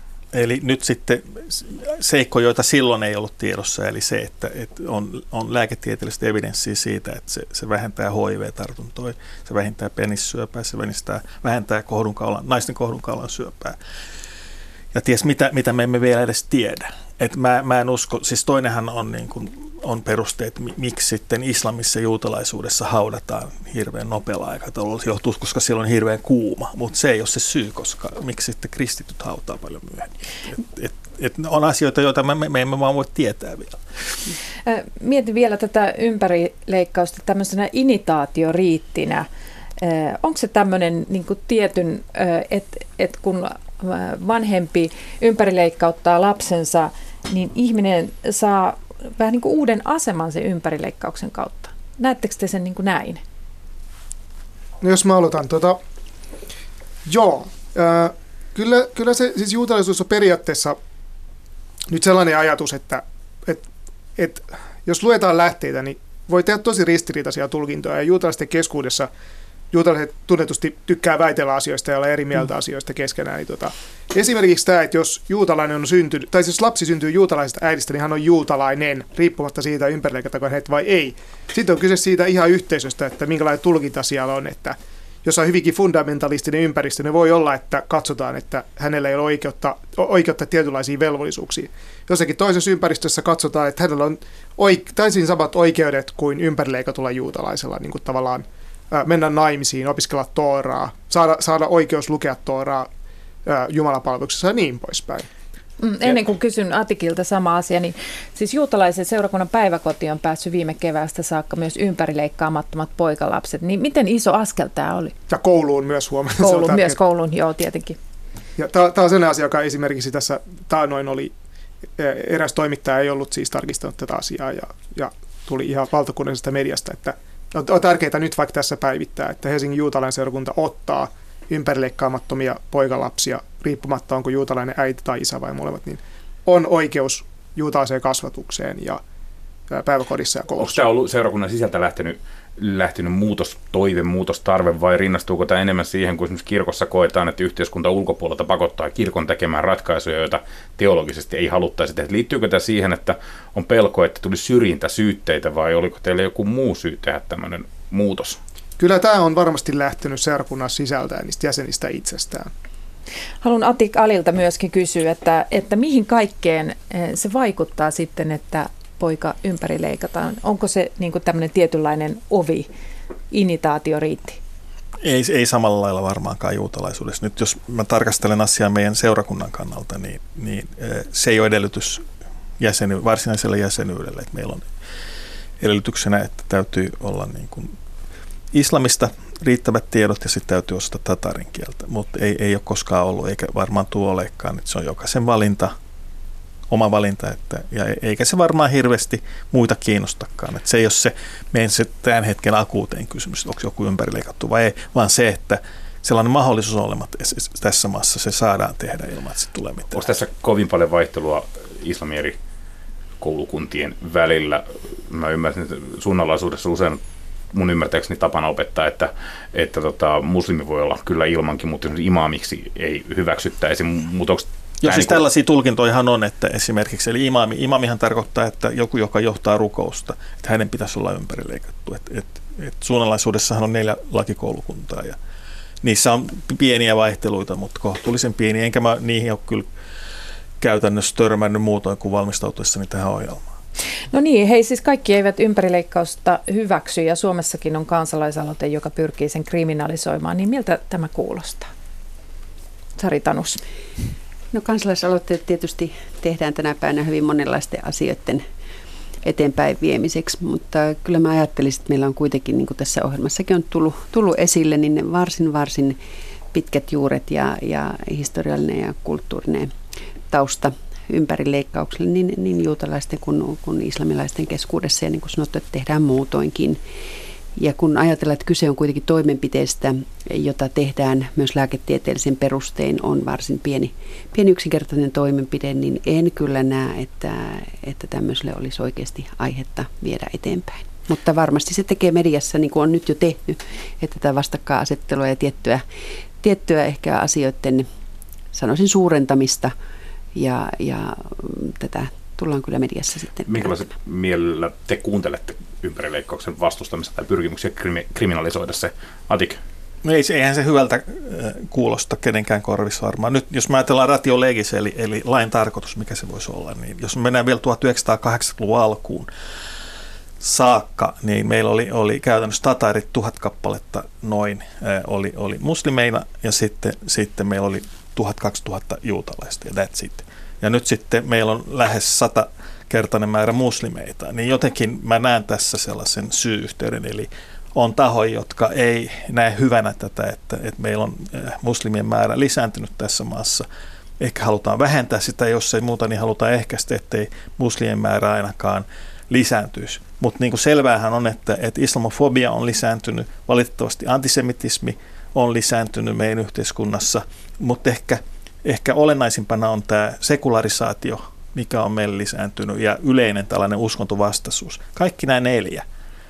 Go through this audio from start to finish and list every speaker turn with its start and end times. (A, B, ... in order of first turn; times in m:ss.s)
0:00.3-0:13.8 A
0:14.9-0:33.8 A
0:34.6-0:39.3 B
0:39.8-0:53.2 B
0:54.8-0:55.8 C
0:57.0-1:00.8 C
1:01.9-1:09.1 C
1:09.7-1:42.9 C
1:43.4-1:45.3 C
1:45.8-1:55.2 B
1:55.3-1:57.0 C
1:56.4-1:58.0 B
1:58.6-2:01.3 C
2:02.0-2:19.0 C
2:19.7-2:20.7 C
2:20.6-2:38.4 D
2:38.8-2:42.5 C
2:43.4-2:52.7 B
2:53.3-2:54.4 B
2:55.0-3:02.0 A
3:02.6-3:04.7 A
3:05.6-3:07.7 A
3:08.5-3:15.7 A
3:16.7-3:30.0 A
3:29.9-3:32.4 D
3:33.2-3:37.0 D
3:37.5-3:45.2 D
3:44.8-3:55.2 A
3:55.8-3:59.7 A
4:00.6-4:03.4 A
4:04.1-4:11.7 B
4:13.0-4:13.6 B
4:14.5-4:18.4 E
4:19.2-4:26.0 E
4:26.5-4:29.7 E
4:30.3-4:36.8 E
4:37.6-4:55.8 E
4:56.4-4:57.9 E
4:58.5-4:59.7 E
5:00.3-5:03.8 E
5:03.4-5:09.6 D
5:10.0-5:19.3 A
5:20.4-5:43.6 A
5:44.2-6:05.8 A